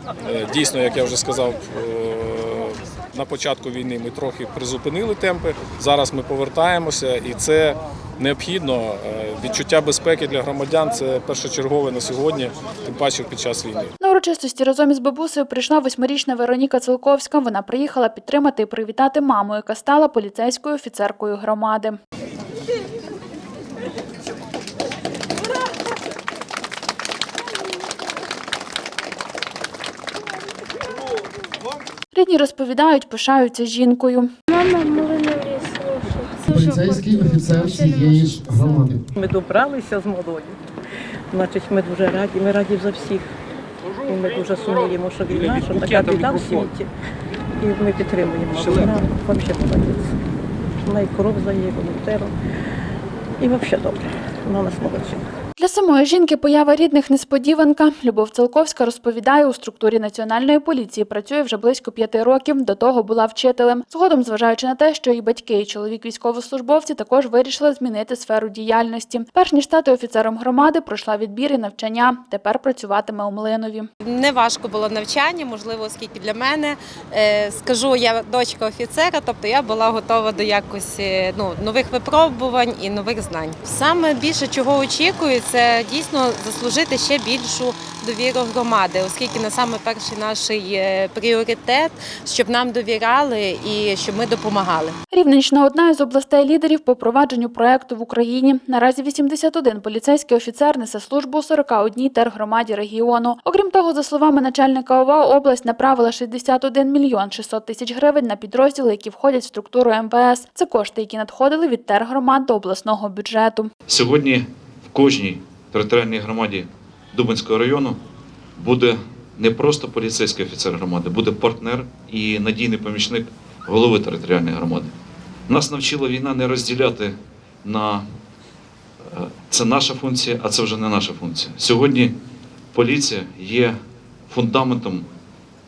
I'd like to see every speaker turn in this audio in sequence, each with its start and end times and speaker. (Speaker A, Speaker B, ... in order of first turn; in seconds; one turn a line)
Speaker A: 0.2-13.9
Speaker B: 14.0-22.0
Speaker B: 32.1-34.3
Speaker C: 34.5-38.5
Speaker D: 36.5-39.1
Speaker E: 39.1-40.6
Speaker E: 41.3-43.3
Speaker E: 44.0-46.9
Speaker E: 47.6-50.2
Speaker E: 50.8-52.3
Speaker E: 53.4-55.2
Speaker B: 55.6-73.9
Speaker F: 74.1-95.0
Speaker B: 95.1-113.7
Speaker G: 113.9-118.0
Speaker G: 118.6-124.9
Speaker G: 125.5-128.0
Speaker G: 129.1-132.1
Speaker G: 132.7-133.7
Speaker G: 134.3-135.1